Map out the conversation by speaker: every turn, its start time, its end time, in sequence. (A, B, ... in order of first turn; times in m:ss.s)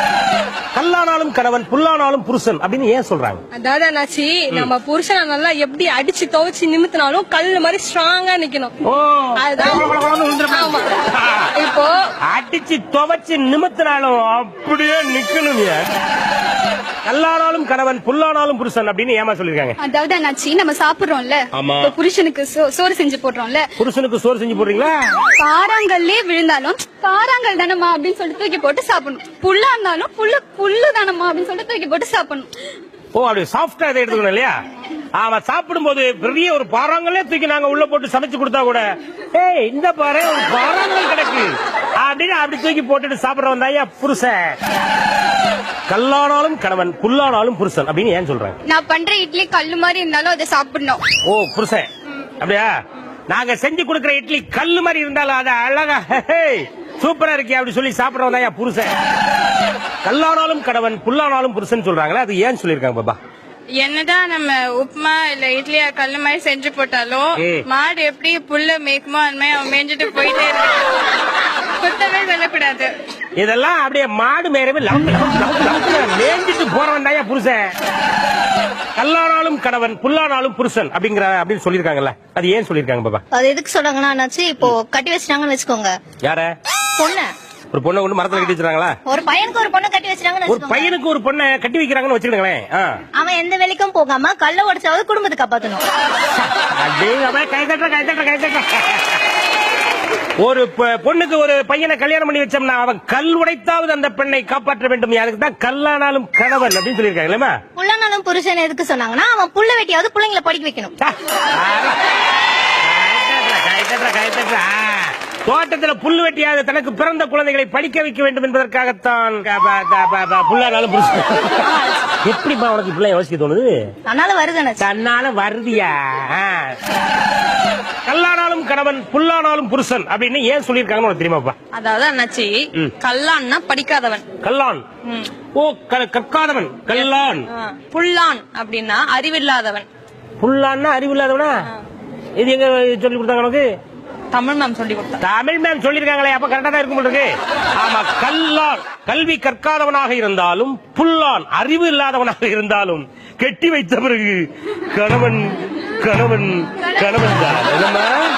0:00.7-0:03.4 A
0:03.5-0:08.7 B
0:08.8-0:11.5 A
0:09.4-0:09.9 B
0:10.5-0:10.8 B
0:11.6-0:11.9 C
0:12.3-0:15.8 A
0:17.0-0:19.8 A
0:19.8-0:23.6 C
0:21.5-0:22.0 A
0:23.8-0:24.9 A
0:25.4-0:32.5 C
0:33.1-0:34.6 A
0:35.1-0:44.6 A
0:45.9-0:48.5 A
0:48.6-0:51.0 C
0:51.3-0:51.9 A
0:52.4-0:52.7 A
0:53.3-0:58.9 A
1:00.0-1:03.2 A
1:03.8-1:10.8 D
1:07.4-1:07.6 A
1:11.8-1:12.9 D
1:13.4-1:17.7 A
1:19.0-1:23.2 A
1:23.3-1:26.0 E
1:26.2-1:26.5 A
1:27.0-1:27.3 E
1:27.7-1:29.0 A
1:29.0-1:30.9 E
1:30.5-1:33.0 A
1:33.2-1:35.8 E
1:36.4-1:39.2 A
1:40.4-1:47.6 A
1:47.8-1:50.9 E
1:51.0-1:52.0 A
1:52.8-2:01.7 A
2:02.2-2:03.7 A
2:04.0-2:04.8 E
2:04.8-2:06.7 A
2:08.0-2:11.6 A
2:11.7-2:14.2 F
2:14.4-2:14.8 A
2:15.6-2:17.4 A
2:17.6-2:19.8 F
2:20.4-2:21.6 A
2:22.4-2:23.6 A
2:24.3-2:25.2 F
2:25.2-2:38.1 A